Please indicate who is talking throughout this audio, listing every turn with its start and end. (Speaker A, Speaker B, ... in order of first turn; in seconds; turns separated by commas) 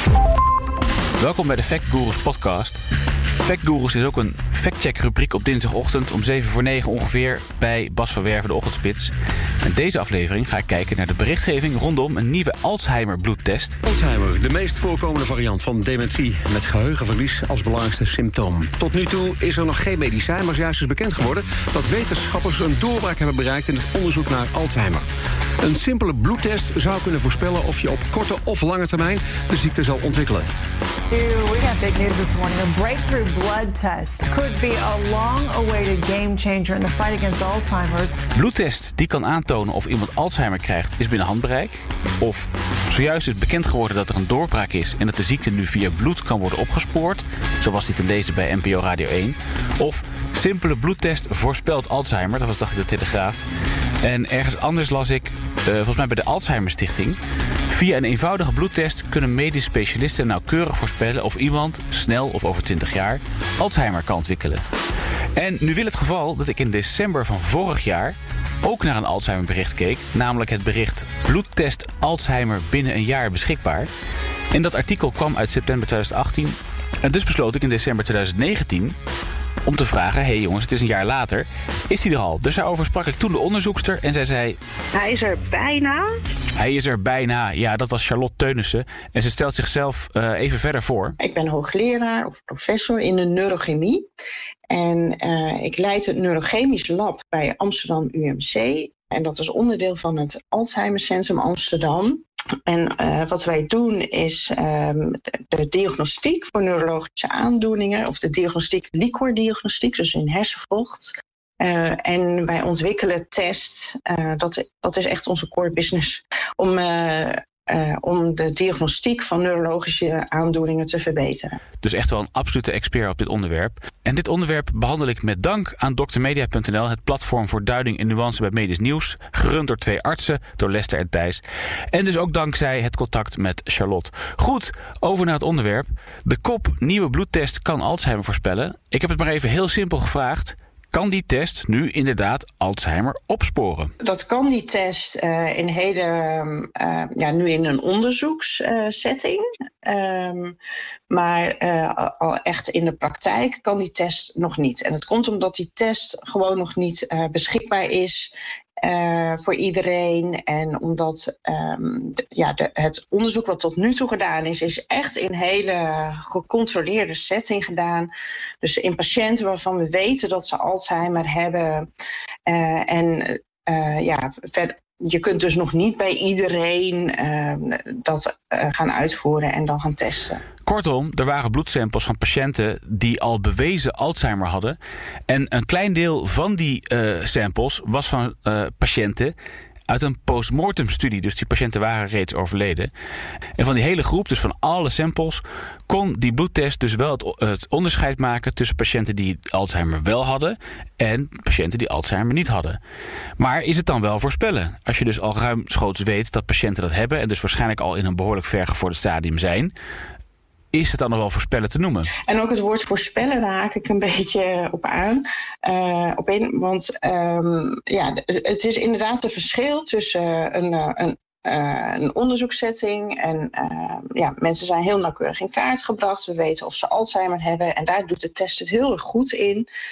Speaker A: 1.2-2.8, Speaker A: 3.4-13.8, Speaker B: 13.8-25.1, Speaker B: 25.6-30.5, Speaker C: 31.1-38.1, Speaker A: 38.3-53.4, Speaker A: 54.0-64.6, Speaker A: 65.3-73.9, Speaker A: 74.5-78.9, Speaker A: 79.6-84.6, Speaker D: 84.9-86.1, Speaker A: 86.5-91.2, Speaker D: 91.2-94.0, Speaker D: 94.7-121.6, Speaker A: 121.8-143.9, Speaker D: 144.0-150.6, Speaker D: 151.1-158.3, Speaker D: 158.8-168.1, Speaker D: 168.6-171.9, Speaker D: 172.5-180.4, Speaker A: 180.6-189.3, Speaker A: 189.9-192.9, Speaker A: 193.6-202.8, Speaker A: 203.4-209.7, Speaker A: 210.7-212.1, Speaker D: 212.3-229.7